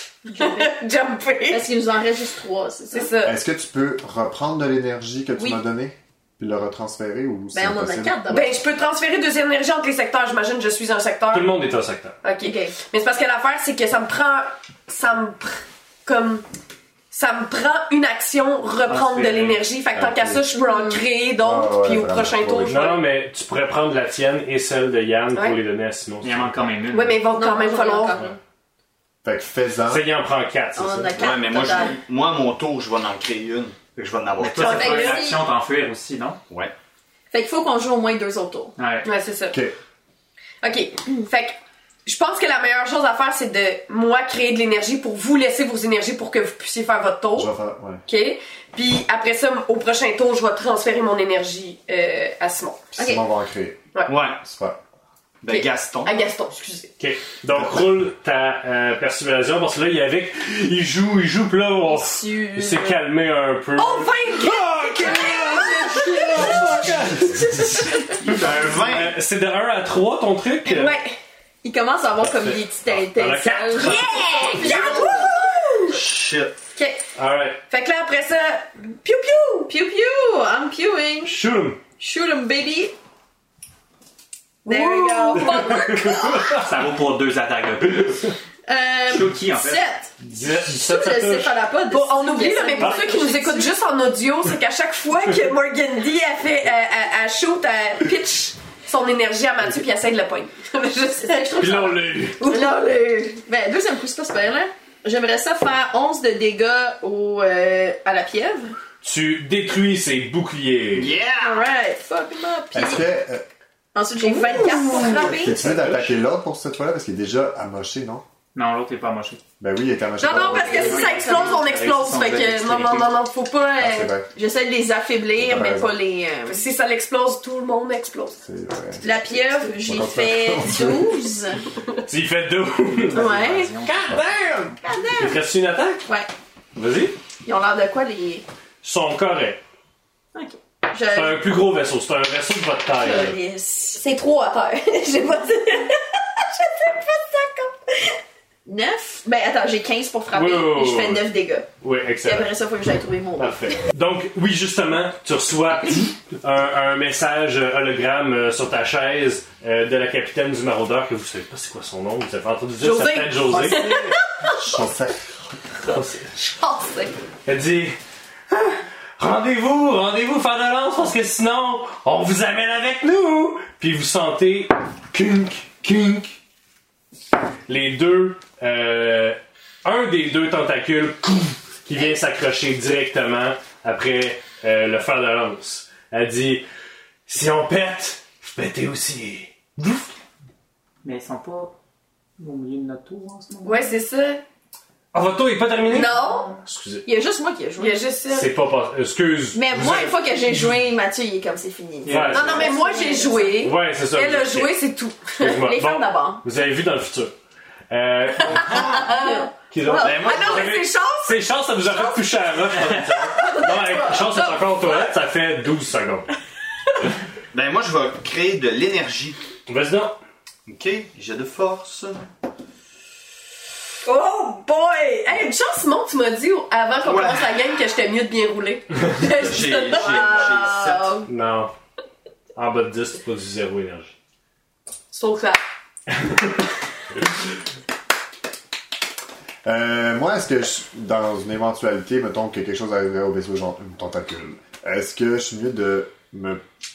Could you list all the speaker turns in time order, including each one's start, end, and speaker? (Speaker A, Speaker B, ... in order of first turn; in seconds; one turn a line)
Speaker A: 0.2-0.7
Speaker B: 0.3-1.6
Speaker A: 1.5-3.1
Speaker B: 2.9-3.4
Speaker C: 3.2-8.5
Speaker A: 7.5-8.5
Speaker B: 8.3-11.6
Speaker D: 11.3-12.2
Speaker B: 12.2-16.4
Speaker A: 12.4-12.8
Speaker B: 17.1-23.1
Speaker E: 18.9-19.6
Speaker C: 19.9-20.4
Speaker A: 20.6-21.0
Speaker C: 21.4-22.8
Speaker D: 22.7-26.5
Speaker B: 25.3-25.6
Speaker E: 26.2-27.2
Speaker B: 26.9-28.2
Speaker A: 27.3-28.4
Speaker C: 29.2-30.1
Speaker D: 29.9-31.3
Speaker A: 30.8-32.0
Speaker F: 31.1-35.1
Speaker E: 34.4-36.4
Speaker B: 34.6-35.3
Speaker A: 34.6-35.4
Speaker A: 37.3-38.7
Speaker E: 38.8-39.1
Speaker B: 39.0-39.6
Speaker B: 40.6-47.5
Speaker C: 47.4-48.0
Speaker B: 48.1-52.8
Speaker C: 53.0-53.9
Speaker A: 53.0-53.2
Speaker F: 54.1-54.4
Speaker C: 54.4-54.8
Speaker F: 55.4-56.2
Speaker B: 55.5-56.9
Speaker D: 57.0-70.9
Speaker A: 61.9-63.0
Speaker B: 63.8-66.7
Speaker A: 65.0-68.1
Speaker F: 68.3-69.2
Speaker B: 70.6-71.2
Speaker A: 71.6-75.3
Speaker D: 72.2-74.5
Speaker B: 73.8-76.0
Speaker F: 74.6-76.6
Speaker B: 76.8-77.1
Speaker D: 77.2-77.6
Speaker B: 77.7-79.7
Speaker A: 79.7-81.4
Speaker D: 81.3-81.8
Speaker A: 82.0-83.0
Speaker A: 84.7-86.2
Speaker B: 84.7-86.4
Speaker D: 85.4-86.7
Speaker E: 86.6-88.3
Speaker A: 88.7-93.8
Speaker E: 89.1-89.8
Speaker D: 90.2-91.6
Speaker B: 91.9-102.7
Speaker A: 101.2-108.8
Speaker D: 101.6-102.4
Speaker D: 109.0-111.2
Speaker F: 110.9-111.7
Speaker A: 111.4-113.0
Speaker C: 112.7-113.5
Speaker A: 114.0-115.6
Speaker B: 114.2-115.6
Speaker C: 114.9-118.2
Speaker E: 118.5-119.4
Speaker C: 119.6-121.1
Speaker B: 120.2-124.1
Speaker A: 120.3-121.6
Speaker E: 120.3-123.2
Speaker C: 123.8-124.3
Speaker A: 124.3-126.6
Speaker C: 125.4-126.0
Speaker B: 126.5-128.4
Speaker C: 128.4-129.1
Speaker B: 129.0-129.7
Speaker A: 129.0-131.6
Speaker C: 129.8-131.3
Speaker D: 132.1-133.3
Speaker E: 132.9-134.8
Speaker A: 133.1-133.8
Speaker B: 133.8-134.7
Speaker A: 134.8-135.4
Speaker D: 135.2-136.1
Speaker D: 136.8-137.2
Speaker A: 137.4-138.5
Speaker D: 138.8-139.6
Speaker A: 140.3-141.5
Speaker D: 141.0-143.4
Speaker A: 142.9-144.0
Speaker B: 144.0-148.2
Speaker A: 148.7-151.7
Speaker D: 150.3-151.2
Speaker D: 151.8-152.5
Speaker A: 152.2-153.8
Speaker D: 153.4-164.2
Speaker B: 162.8-164.6
Speaker C: 164.5-165.5
Speaker D: 165.8-166.3
Speaker B: 166.4-167.2
Speaker D: 167.5-168.0
Speaker D: 168.5-176.3
Speaker D: 177.7-186.7
Speaker D: 187.3-190.2
Speaker E: 191.0-191.7
Speaker E: 192.4-194.0
Speaker B: 193.6-194.4
Speaker D: 195.1-197.1
Speaker B: 195.9-196.6
Speaker E: 196.1-196.6
Speaker A: 197.1-198.0
Speaker B: 197.8-198.5
Speaker D: 198.3-200.7
Speaker A: 199.5-203.5
Speaker E: 202.1-202.7
Speaker D: 202.1-202.7
Speaker B: 202.3-205.6
Speaker D: 203.6-204.7
Speaker D: 205.4-207.3
Speaker A: 205.6-206.4
Speaker D: 207.9-216.3
Speaker B: 208.4-212.2
Speaker A: 209.1-210.7
Speaker F: 210.0-210.6
Speaker B: 212.9-215.1
Speaker A: 213.4-214.4
Speaker F: 217.5-219.4
Speaker D: 219.7-220.2
Speaker F: 220.7-222.3
Speaker B: 224.1-230.8
Speaker F: 227.0-227.5
Speaker F: 229.3-231.2
Speaker A: 229.9-231.3
Speaker D: 231.3-231.7
Speaker D: 232.6-234.1
Speaker B: 235.1-235.6
Speaker D: 236.2-236.5
Speaker C: 239.6-246.6